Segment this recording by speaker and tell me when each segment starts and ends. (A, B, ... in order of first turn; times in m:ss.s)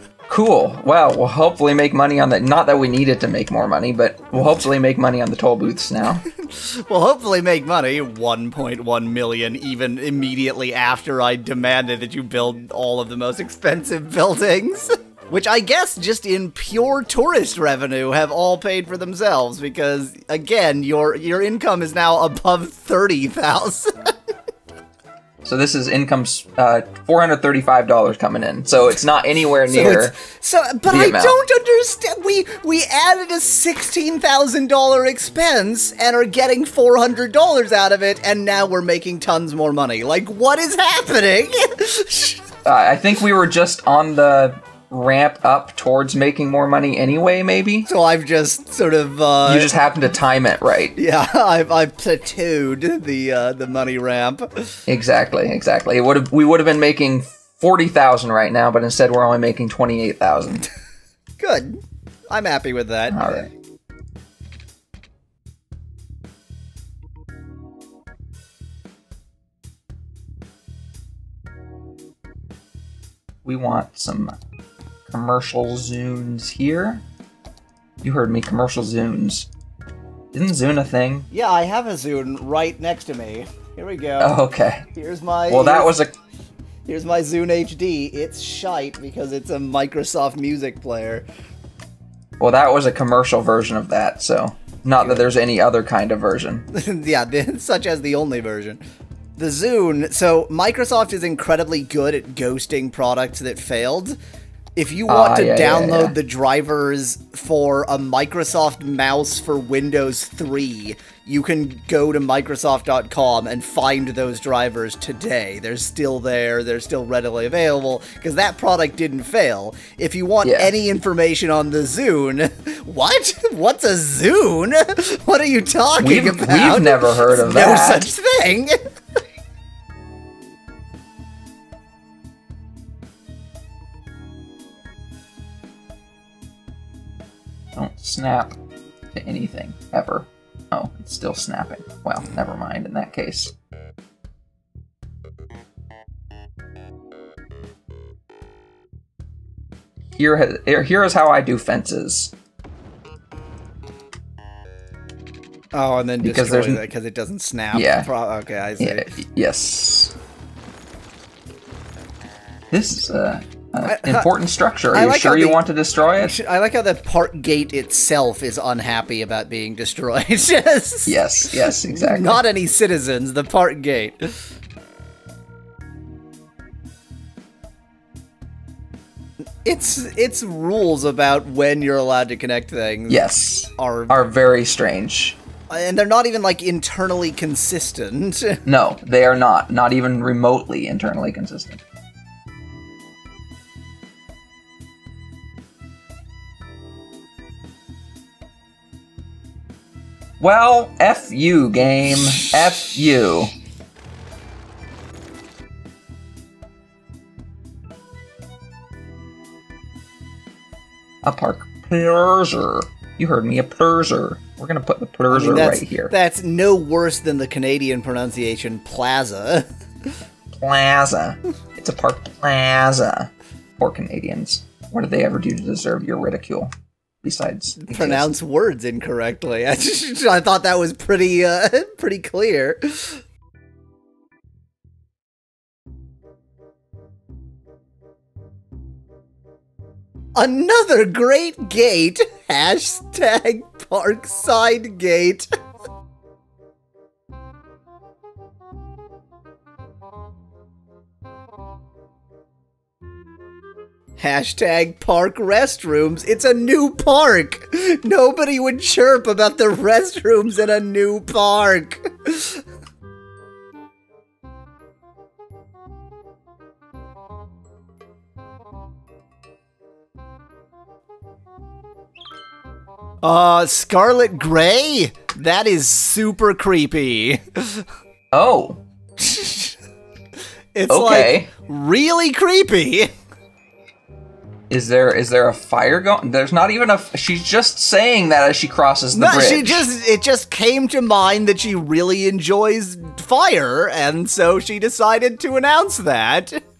0:00.3-0:06.2 A
0:06.4-0:23.9 B
0:25.4-0:30.1 A
0:29.7-0:42.4 B
0:30.9-0:31.4 A
0:42.6-0:47.9 A
0:47.9-0:49.7 B
0:49.4-0:51.0 A
0:51.0-0:54.8 B
0:54.9-1:00.6 A
1:01.4-1:01.8 B
1:02.3-1:03.5 B
1:03.1-1:03.5 A
1:13.4-1:14.3 A
1:15.1-1:17.0 A
1:18.0-1:19.5 A
1:20.3-1:21.3 A
1:21.3-1:24.4 B
1:24.2-1:24.8 A
1:24.9-1:25.9 B
1:25.5-1:26.1 A
1:26.9-1:31.2 B
1:32.4-1:36.6 A
1:35.0-1:35.3 B
1:36.7-1:38.8 B
1:39.4-1:44.2 B
1:44.8-2:08.8 B
1:45.1-1:46.2 A
2:00.4-2:00.7 A
2:06.0-2:08.0 A
2:17.8-2:18.6 A
2:19.1-2:23.5 A
2:30.2-2:32.3 A
2:35.7-2:39.1 B
2:36.2-2:36.8 A
2:37.7-2:38.1 A
2:38.8-2:40.1 A
2:42.7-2:46.3 A
2:43.8-2:44.3 B
2:44.9-2:45.6 B
2:46.2-2:54.2 B
2:51.0-2:52.4 A
2:59.6-3:04.3 B
3:03.1-3:05.4 A
3:05.7-3:08.6 B
3:08.6-3:11.8 A
3:20.4-3:23.5 A
3:31.2-3:36.1 A
3:35.3-3:39.6 B
3:40.5-3:46.7 A
3:47.2-3:48.2 A
3:47.8-3:53.2 B
4:00.4-4:05.5 B
4:14.2-4:22.6 B
4:33.2-4:37.8 B
4:38.3-4:38.8 A
4:39.2-4:39.8 B
4:40.7-4:43.1 B
4:40.9-4:41.5 A
4:44.7-4:49.9 A
4:49.1-4:56.6 B